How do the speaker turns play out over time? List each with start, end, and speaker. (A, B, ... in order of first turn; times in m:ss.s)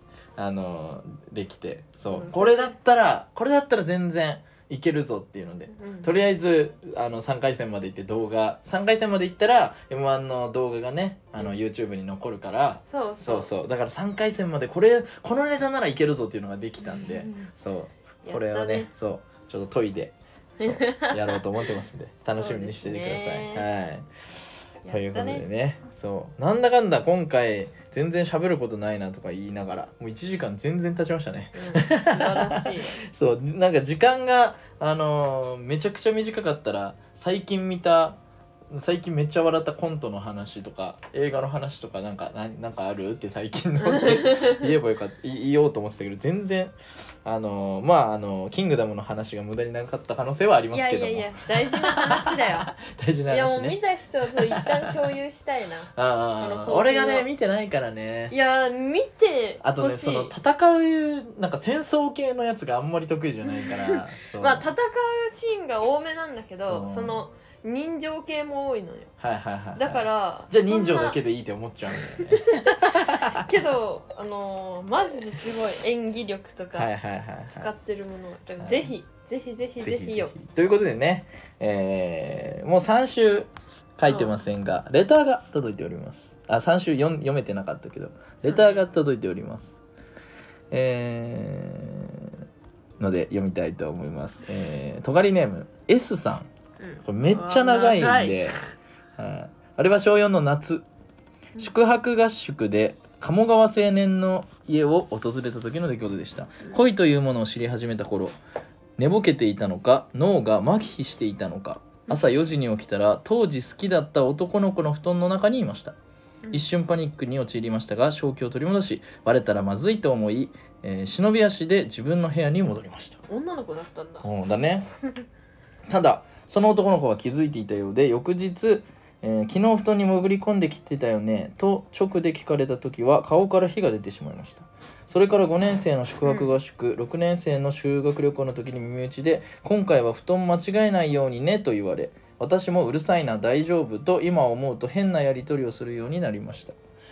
0:00.4-0:24.1 A
0:02.1-0:02.7 B
0:05.7-0:06.1 B
0:12.9-0:13.5 B
0:16.8-0:17.5 B
0:18.2-0:18.9 B
0:20.6-0:21.4 B
0:22.3-0:23.7 B
0:24.8-0:25.4 B
0:24.9-0:38.2 A
0:31.5-0:33.0 B
0:38.7-0:53.8 A
0:43.8-0:44.7 B
0:50.7-0:52.7 B
0:53.3-0:57.3 B
0:54.3-0:55.1 A
0:55.9-0:58.3 A
0:58.3-1:00.3 B
0:59.6-1:04.7 A
1:03.4-1:09.1 B
1:06.6-1:07.2 A
1:09.2-1:13.5 A
1:09.8-1:11.2 B
1:12.1-1:16.9 B
1:16.7-1:17.7 A
1:17.5-1:20.3 B
1:18.6-1:18.9 A
1:19.8-1:29.8 A
1:24.1-1:24.4 B
1:28.4-1:28.9 B
1:30.7-1:32.3 A
1:33.0-1:36.5 A
1:36.8-1:38.5 B
1:37.0-1:38.6 A
1:39.2-1:40.8 A
1:41.6-1:48.3 A
1:49.0-1:56.0 A
1:56.5-2:03.2 A
2:03.3-2:04.2 B
2:04.2-2:04.9 A
2:05.9-2:26.8 A
2:16.2-2:16.5 B